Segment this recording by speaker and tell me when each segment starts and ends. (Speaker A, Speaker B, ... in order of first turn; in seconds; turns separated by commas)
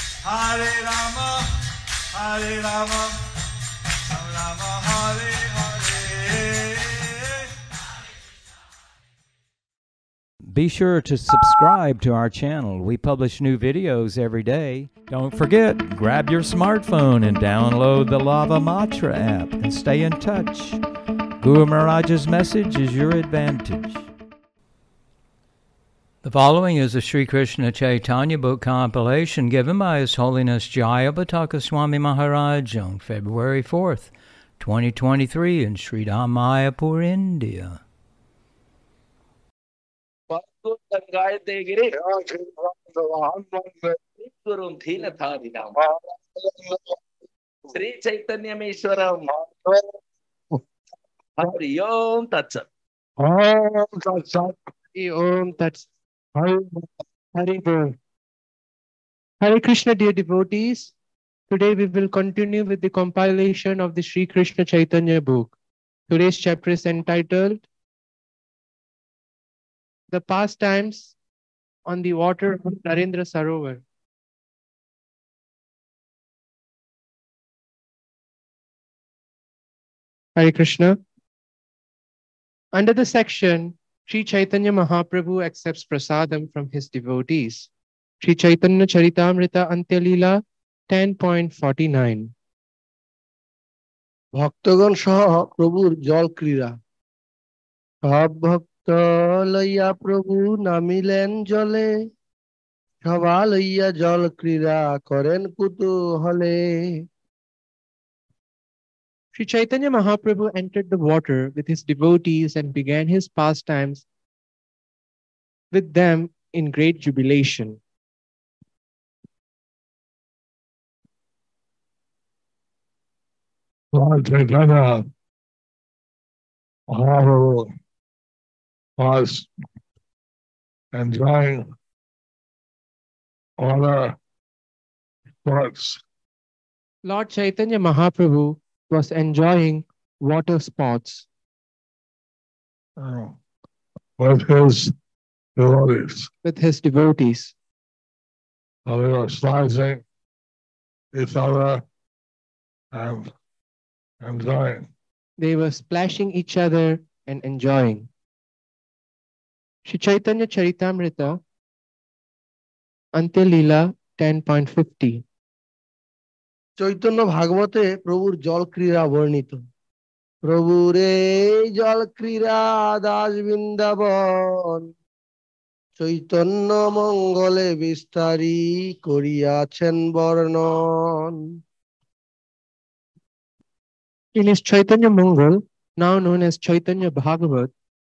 Speaker A: 0.2-1.5, Speaker A: 2.1-3.2, Speaker A: 4.1-7.5, Speaker B: 10.5-20.8, Speaker B: 21.4-24.1, Speaker B: 26.2-37.8, Speaker C: 40.3-42.0, Speaker D: 41.9-44.0, Speaker C: 44.2-45.7, Speaker D: 45.7-46.9, Speaker C: 47.7-49.4, Speaker C: 51.4-52.6, Speaker D: 53.2-54.6, Speaker E: 54.9-55.9, Speaker D: 56.3-56.9, Speaker E: 57.3-57.9, Speaker E: 59.4-60.9, Speaker E: 61.5-65.5, Speaker E: 66.1-67.6, Speaker E: 70.1-71.2, Speaker E: 71.9-73.8, Speaker E: 80.4-81.0, Speaker E: 82.7-87.7, Speaker E: 88.2-92.3, Speaker F: 94.3-96.7, Speaker F: 98.0-101.9, Speaker F: 103.0-107.0, Speaker E: 109.3-114.0, Speaker E: 115.7-117.8, Speaker D: 123.9-125.1, Speaker D: 126.9-127.7, Speaker D: 129.0-129.5, Speaker D: 130.9-131.7, Speaker D: 133.6-134.2, Speaker D: 135.4-136.0, Speaker E: 137.0-141.3, Speaker D: 143.0-143.4, Speaker D: 144.2-144.9, Speaker D: 145.6-146.3, Speaker E: 146.4-147.5, Speaker D: 148.8-150.0, Speaker D: 151.1-151.8, Speaker D: 152.9-153.3, Speaker D: 154.2-154.9, Speaker E: 155.4-158.1, Speaker E: 159.8-161.4, Speaker E: 163.1-165.2, Speaker F: 166.8-169.6, Speaker F: 170.5-174.9, Speaker F: 176.0-181.5, Speaker E: 184.3-187.7